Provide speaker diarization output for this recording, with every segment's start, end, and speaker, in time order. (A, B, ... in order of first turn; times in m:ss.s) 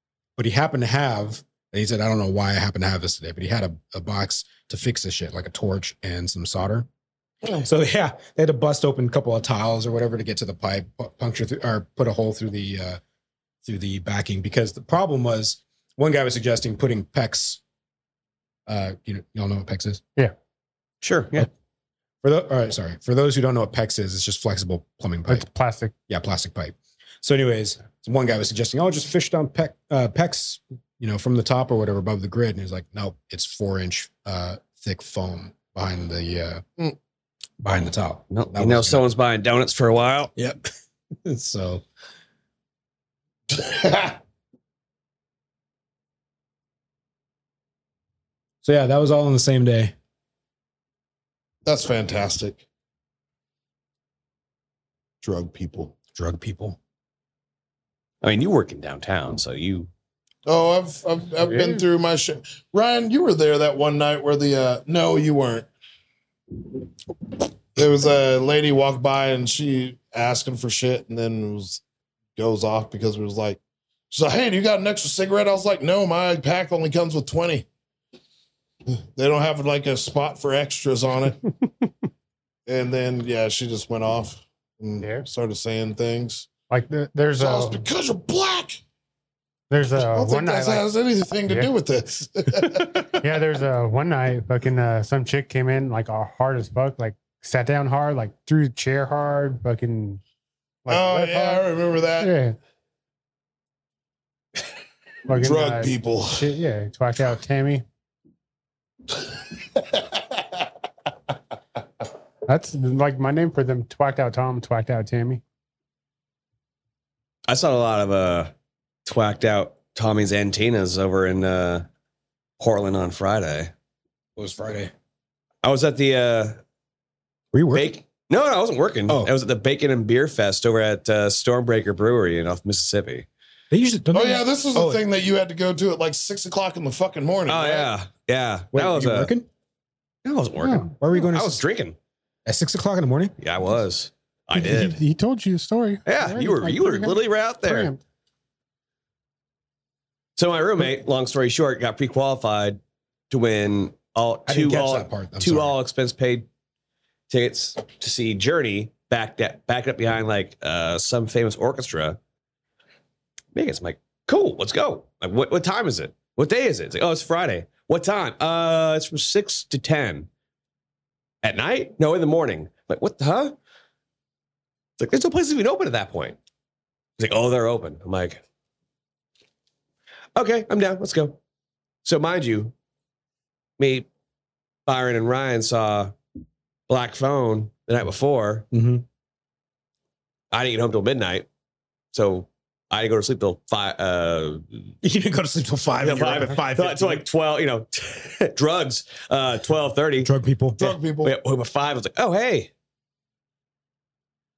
0:00.4-0:06.9 A
0:07.6-0:13.0 A
0:13.6-0:17.6 A
0:18.7-0:20.0 A
0:21.0-0:21.5 B
0:22.2-0:25.5 A
0:25.3-0:25.9 C
0:26.1-0:36.6 A
0:37.6-0:39.0 A
0:38.3-0:40.3 B
0:40.4-0:40.6 A
0:41.2-0:41.8 A
0:43.5-0:44.2 D
0:48.6-0:49.9 A
0:51.6-0:52.6 D
0:55.2-0:55.9 D
0:56.2-0:56.8 A
0:58.2-0:59.9 B
1:00.5-1:05.7 D
1:07.8-1:11.8 D
1:12.4-1:13.6 D
1:14.1-1:17.7 D
1:19.2-1:21.5 D
1:22.7-1:26.5 D
1:25.0-1:25.3 C
1:26.7-1:27.8 C
1:27.4-1:28.8 D
1:29.7-1:30.9 C
1:30.0-1:33.1 D
1:33.2-1:40.2 C
1:40.8-1:41.7 C
1:40.9-1:42.3 D
1:42.2-1:42.6 C
1:45.3-1:47.8 C
1:45.4-1:46.5 D
1:49.8-1:50.2 D
1:52.5-1:55.4 C
1:57.5-1:58.5 B
1:59.0-2:01.8 B
2:02.6-2:03.7 B
2:04.4-2:04.9 A
2:05.6-2:06.6 B
2:07.5-2:07.9 A
2:07.7-2:13.3 B
2:13.7-2:15.0 A
2:14.1-2:17.9 D
2:17.5-2:19.3 B
2:18.7-2:19.5 A
2:20.2-2:22.0 B
2:20.6-2:20.9 C
2:21.0-2:21.6 A
2:22.5-2:23.4 A
2:23.4-2:25.0 B
2:24.5-2:28.0 C
2:26.1-2:27.9 B
2:30.4-2:32.8 B
2:33.3-2:36.5 B
2:34.5-2:35.8 A
2:37.3-2:42.2 B
2:43.6-2:50.3 B
2:51.4-2:53.5 B
2:55.0-2:56.4 B
2:57.2-2:58.4 B
3:00.4-3:01.4 B
3:02.0-3:02.7 B
3:03.8-3:04.1 B
3:04.9-3:06.1 B
3:06.9-3:08.7 B
3:08.7-3:09.0 A
3:10.5-3:11.5 B
3:12.1-3:14.9 B
3:15.0-3:17.2 A
3:16.0-3:22.7 B
3:20.2-3:21.0 A
3:20.8-3:21.3 D